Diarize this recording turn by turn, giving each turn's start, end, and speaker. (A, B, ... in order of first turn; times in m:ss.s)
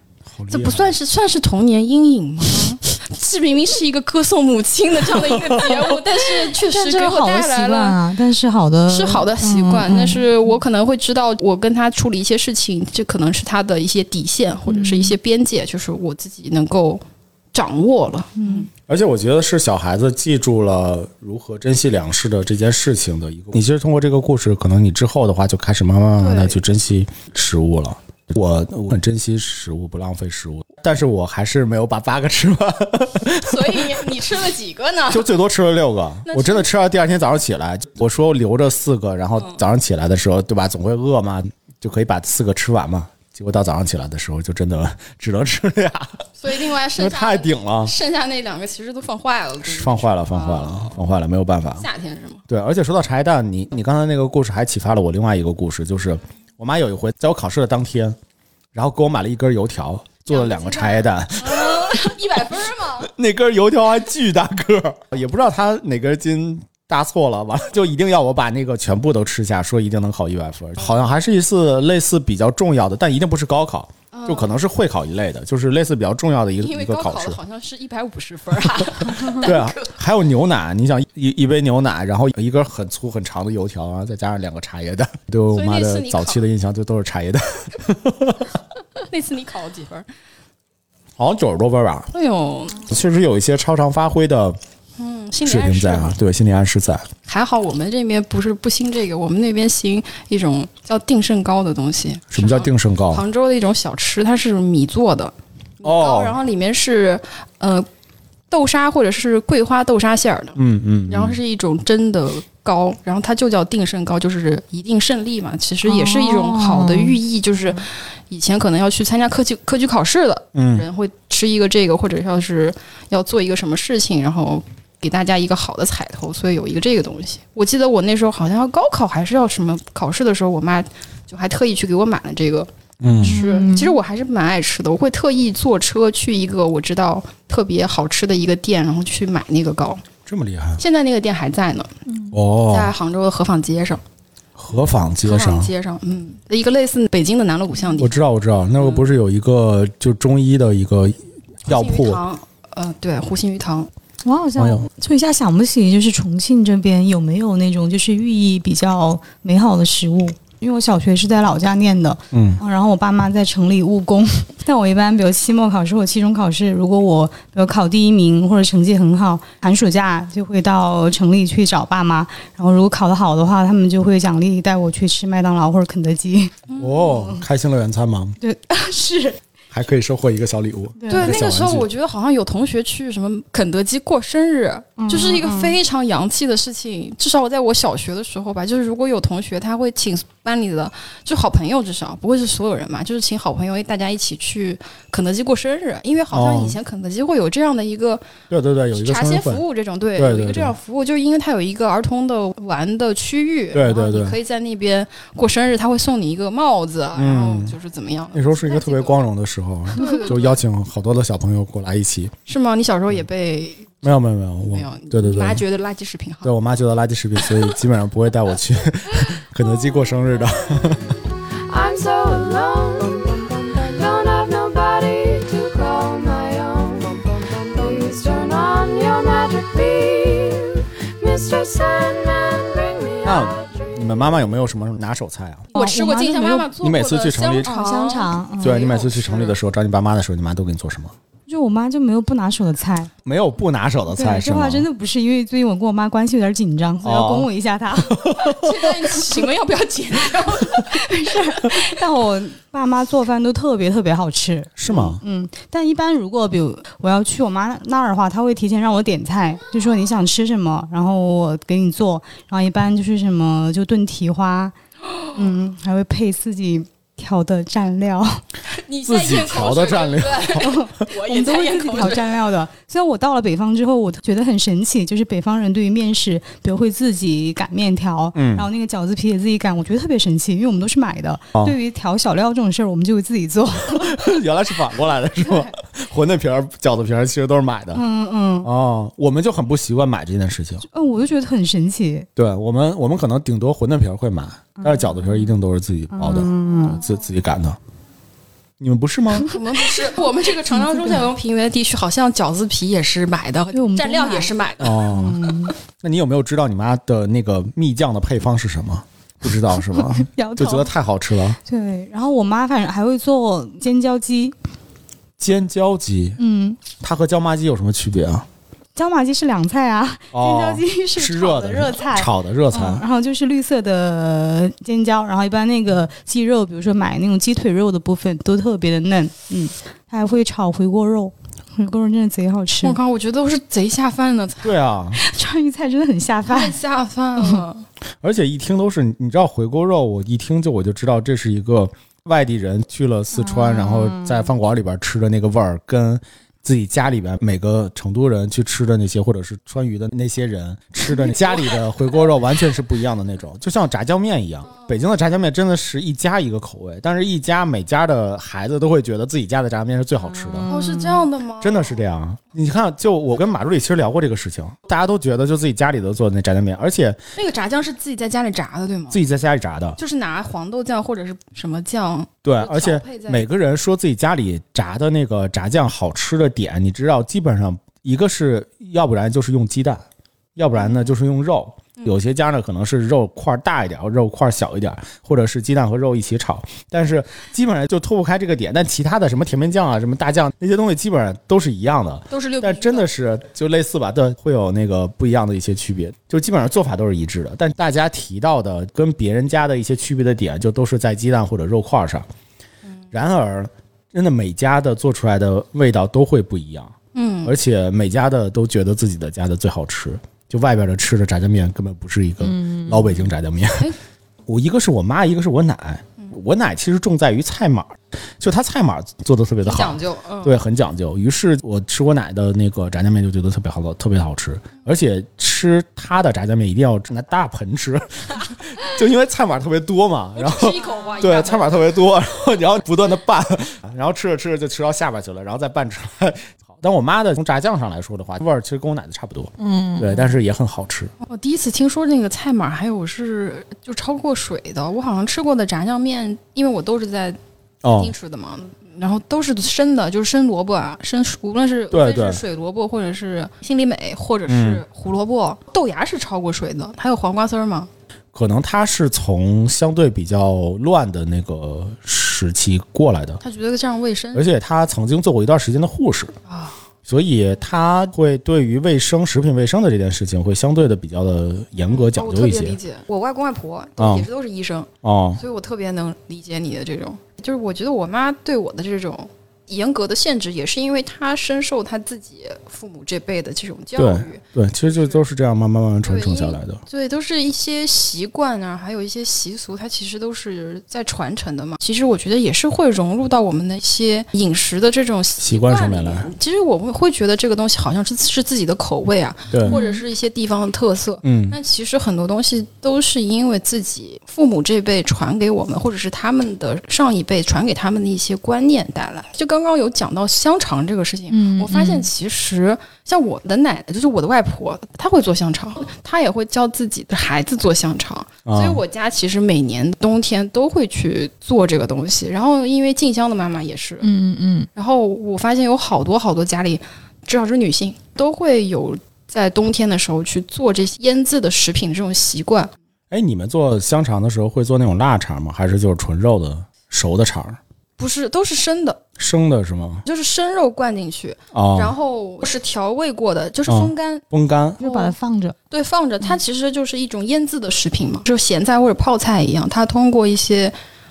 0:00.3-0:01.0 A
0:00.5-0:08.0 B
0:05.2-0:06.0 A
0:06.7-0:10.3 C
0:08.9-0:17.0 B
0:14.7-0:15.2 C
0:17.5-0:18.7 B
0:18.4-0:18.7 C
0:18.9-0:34.1 A
0:26.2-0:26.6 B
0:33.4-0:35.3 B
0:35.1-0:46.2 A
0:36.3-0:36.7 B
0:46.4-0:51.0 B
0:47.0-0:47.9 A
0:49.6-0:51.9 A
0:51.8-0:52.4 B
0:52.5-0:58.2 A
0:58.7-1:02.2 A
1:00.3-1:03.1 B
1:03.0-1:17.4 A
1:14.1-1:14.6 B
1:16.6-1:20.0 B
1:19.0-1:28.5 A
1:25.5-1:26.5 B
1:29.0-1:30.1 B
1:31.2-1:32.1 A
1:32.1-1:32.9 B
1:32.8-1:34.6 A
1:35.0-1:36.2 B
1:35.4-1:37.1 A
1:37.3-1:47.9 B
1:42.3-1:43.2 A
1:45.8-1:46.4 A
1:48.5-1:50.6 B
1:50.6-1:51.4 A
1:51.1-2:20.0 B
1:55.8-1:57.2 C
2:00.6-2:00.9 A
2:13.0-2:13.4 A
2:13.2-2:14.0 C
2:20.3-2:20.8 A
2:20.8-2:21.9 B
2:22.1-2:22.3 C
2:22.3-2:22.9 A
2:22.7-2:24.0 B
2:24.6-2:25.7 A
2:25.2-2:28.2 B
2:28.0-2:32.2 A
2:28.8-2:29.1 B
2:31.7-2:33.9 B
2:34.2-2:57.4 C
2:34.6-2:34.9 A
2:42.3-2:42.6 A
2:56.7-2:57.0 B
2:56.8-2:58.4 A
2:58.4-2:59.4 C
2:59.7-3:01.9 A
3:01.0-3:01.4 C
3:01.1-3:18.2 B
3:05.0-3:05.8 C
3:16.3-3:16.8 A
3:18.5-3:19.6 A
3:18.9-3:29.2 B
3:20.2-3:20.8 A
3:23.7-3:24.4 A
3:27.2-3:27.8 A
3:28.3-3:32.3 A
3:30.0-3:30.6 B
3:32.5-3:34.1 B
3:34.0-3:35.6 A
3:34.6-3:36.5 B
3:36.4-3:41.2 A
3:41.6-3:43.4 D
3:43.9-3:53.2 D
3:53.2-3:55.7 A
3:55.7-3:56.7 C
3:55.7-3:59.6 B
3:56.8-3:57.7 A
3:57.6-3:58.9 C
3:58.6-4:01.1 A
4:01.5-4:03.1 C
4:03.2-4:04.9 A
4:04.1-4:08.3 C
4:07.0-4:07.5 A
4:08.1-4:09.0 A
4:08.4-4:11.7 B
4:10.8-4:24.8 C
4:14.8-4:15.2 A
4:25.3-4:28.4 C
4:28.7-4:32.4 B
4:29.0-4:30.8 A
4:30.6-4:44.2 C
4:38.4-4:38.7 A
4:43.9-4:48.0 A
4:47.9-4:48.7 C
4:48.6-4:50.8 A
4:50.9-4:52.3 C
4:52.4-4:57.8 A
4:54.8-4:55.5 C
4:56.1-4:57.0 C
4:58.8-4:59.5 A
4:59.4-5:05.0 B
5:00.7-5:01.2 C
5:03.7-5:04.5 C
5:04.8-5:11.6 A
5:05.1-5:05.7 C
5:09.9-5:10.9 C
5:11.6-5:14.6 C
5:15.4-5:16.4 A
5:16.4-5:16.8 C
5:17.0-5:18.5 A
5:19.0-5:33.0 C
5:20.3-5:23.0 A
5:32.8-5:34.8 B
5:34.6-5:35.2 A
5:35.2-5:36.8 C
5:36.5-5:37.8 B
5:38.2-6:00.7 A
5:43.3-5:44.5 C
6:00.5-6:01.2 C
6:00.7-6:02.0 B
6:01.6-6:07.2 A
6:07.4-6:09.2 B
6:09.1-6:10.0 A
6:10.0-6:13.4 B
6:12.4-6:20.0 A
6:20.6-6:42.3 A
6:32.3-6:33.1 B
6:43.1-6:53.9 A
6:47.1-6:47.6 B
6:52.4-6:53.3 C
6:54.5-7:21.1 A
6:59.6-7:00.6 B
7:10.4-7:11.9 B
7:19.6-7:20.3 C
7:21.2-7:37.9 B
7:27.8-7:28.1 A
7:31.9-7:32.4 A
7:34.5-7:34.8 A
7:38.3-7:43.4 A
7:43.4-7:44.5 B
7:44.3-7:46.4 A
7:46.5-7:46.8 B
7:47.1-7:52.8 A
7:51.9-8:05.2 B
7:54.0-7:54.3 A
7:55.0-7:55.4 A
8:04.0-8:06.8 A
8:06.0-8:44.1 B
8:15.4-8:16.3 A
8:19.5-8:19.8 A
8:19.6-8:20.0 C
8:21.2-8:21.6 A
8:31.3-8:32.1 C
8:38.5-8:38.8 A
8:44.0-8:44.7 C
8:44.8-8:52.7 B
8:53.1-8:57.6 A
8:58.0-8:59.0 B
8:59.2-9:00.1 A
9:00.1-9:04.2 B
9:01.5-9:02.0 A
9:03.7-9:04.8 A
9:04.8-9:05.2 B
9:04.8-9:05.6 C
9:05.7-9:10.8 B